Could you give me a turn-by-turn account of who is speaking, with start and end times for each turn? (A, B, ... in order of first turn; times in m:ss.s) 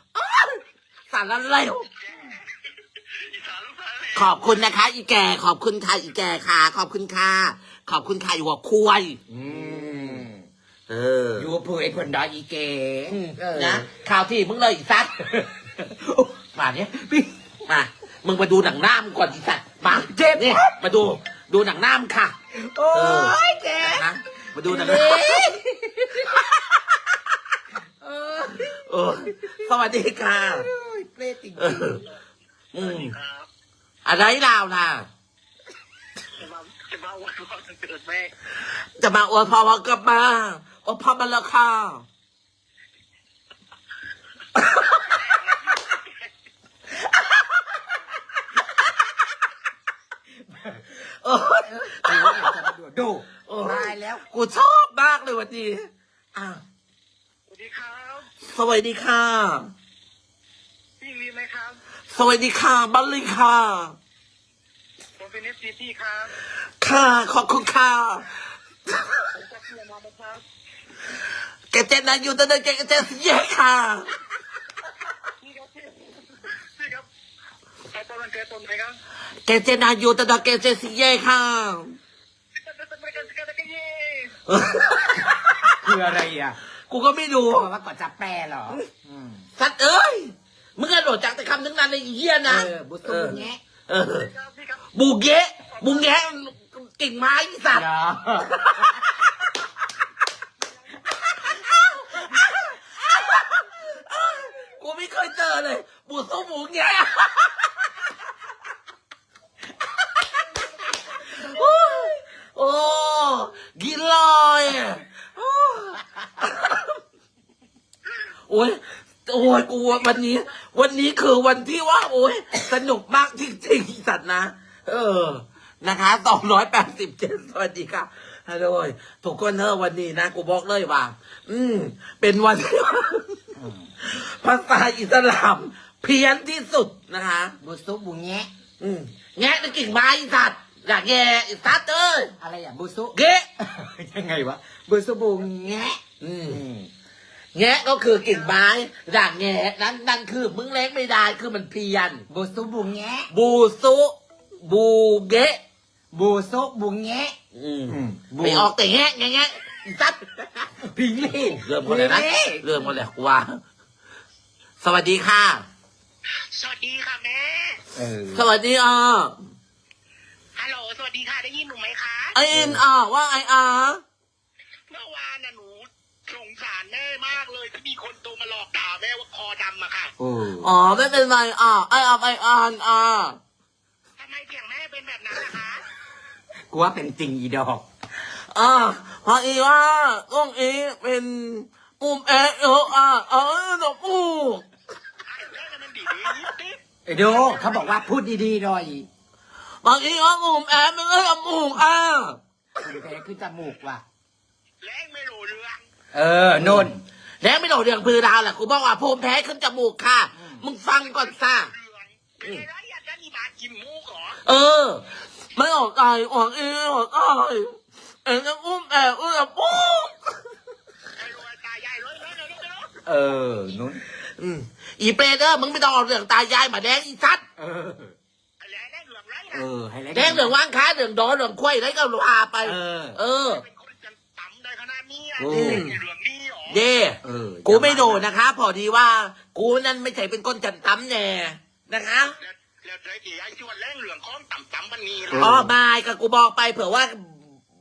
0:00.1-0:01.9 A
0:02.0-0:04.6 B
0:04.2-0:09.2 A
0:09.3-0:10.4 C
0:09.8-0:10.2 A
0:10.9-0:11.5 A
0:11.4-0:13.9 C
0:13.1-0:15.2 A
0:15.2-0:16.4 C
0:16.6-0:17.0 A
0:17.0-0:17.3 C
0:17.7-0:22.4 A
0:19.8-0:20.8 C
0:22.5-0:24.1 C
0:22.9-0:25.6 A
0:24.6-0:26.5 C
0:26.3-0:26.8 A
0:27.8-0:29.5 C
0:28.7-0:30.7 A
0:30.5-0:32.0 C
0:31.6-0:32.0 A
0:32.7-0:33.2 A
0:32.8-0:33.5 B
0:34.0-0:35.1 A
0:36.3-0:38.3 B
0:39.0-0:42.1 A
0:44.6-0:45.2 A
0:45.0-0:46.3 B
0:50.5-0:50.9 C
0:51.1-0:52.7 A
0:51.6-0:54.2 C
0:53.5-0:56.6 A
0:57.5-0:58.3 B
0:58.4-0:59.7 A
1:01.0-1:01.8 B
1:02.1-1:04.0 A
1:05.2-1:06.3 B
1:06.8-1:08.4 A
1:09.0-1:10.4 B
1:11.7-1:14.1 A
1:15.4-1:17.1 B
1:17.9-1:19.0 B
1:19.4-1:22.0 A
1:22.5-1:24.4 B
1:24.5-1:26.0 A
1:25.8-1:26.6 C
1:26.9-1:27.7 A
1:27.5-1:29.5 C
1:29.6-1:34.3 A
1:32.5-1:33.6 C
1:34.2-1:34.9 B
1:34.9-1:39.5 A
1:35.8-1:36.2 B
1:37.7-1:39.0 C
1:41.4-1:47.9 A
1:51.3-1:57.0 A
1:58.5-2:13.4 A
2:13.6-2:13.9 C
2:14.0-2:17.6 A
2:17.6-2:18.5 C
2:18.8-2:22.3 A
2:22.4-2:26.9 C
2:23.1-2:23.5 A
2:26.2-2:26.6 A
2:27.6-2:32.3 A
2:32.3-2:33.3 C
2:33.3-2:35.6 A
2:36.1-2:37.4 C
2:37.5-2:43.6 A
2:37.9-2:38.7 C
2:40.9-2:42.7 C
2:44.8-2:45.6 A
2:46.3-2:47.8 B
2:48.0-2:48.4 C
2:48.3-2:49.4 A
2:50.6-2:52.4 B
2:52.3-2:54.0 A
2:52.5-2:52.8 C
2:54.9-3:00.1 B
3:00.2-3:00.7 C
3:00.6-3:03.4 A
3:04.2-3:05.8 B
3:06.7-3:07.9 C
3:08.5-3:14.6 A
3:15.2-3:18.0 B
3:17.1-3:19.1 C
3:19.8-3:22.4 A
3:22.8-3:24.0 C
3:24.8-3:25.8 B
3:26.1-3:27.0 C
3:26.6-3:26.9 A
3:27.4-3:31.7 A
3:30.4-3:30.6 C
3:31.0-3:34.4 B
3:34.4-3:40.3 A
3:41.2-3:43.0 B
3:43.1-3:44.0 C
3:44.4-3:47.4 A
3:47.6-3:48.1 C
3:48.6-3:49.7 B
3:49.5-3:50.6 C
3:50.1-3:53.6 A
3:52.6-3:53.2 C
3:53.4-3:56.8 B
3:55.4-3:55.9 C
3:55.5-3:56.0 A
3:56.7-4:02.4 A
3:57.2-3:58.2 C
4:02.4-4:05.6 B
4:05.3-4:05.7 C
4:05.4-4:07.5 A